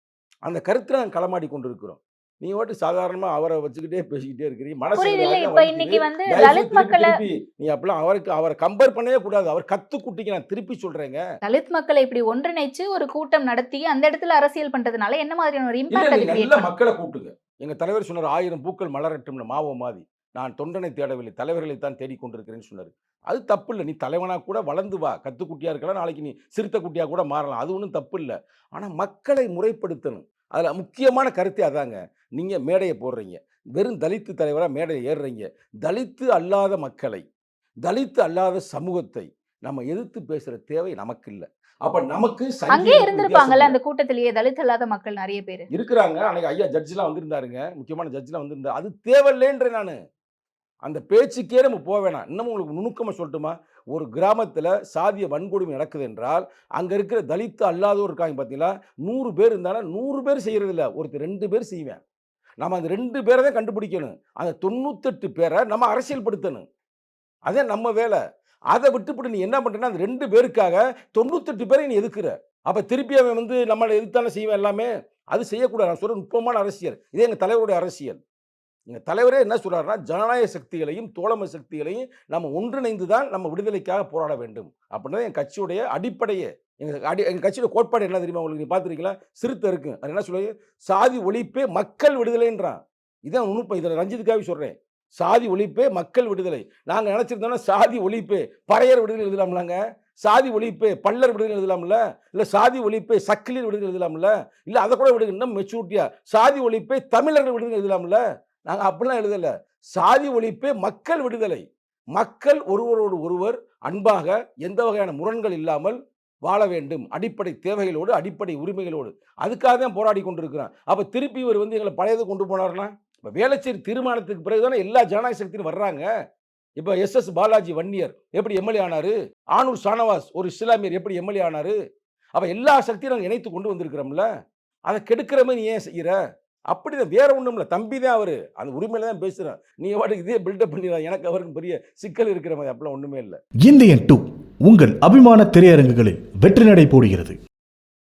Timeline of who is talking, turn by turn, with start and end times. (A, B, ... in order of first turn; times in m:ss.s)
0:00.4-0:11.2 A
0:05.0-0:07.1 B
0:11.4-0:16.7 B
0:15.9-0:37.2 A
0:37.9-0:43.8 A
0:42.7-0:45.7 B
0:45.7-0:50.0 A
0:50.8-1:02.0 A
1:02.6-1:06.7 A
1:07.5-1:08.2 A
1:08.7-1:18.2 A
1:18.9-1:51.6 A
1:52.2-2:06.1 A
2:06.8-2:11.8 A
2:12.4-2:14.3 A
2:14.9-2:16.2 A
2:16.7-2:23.4 A
2:23.6-2:27.4 C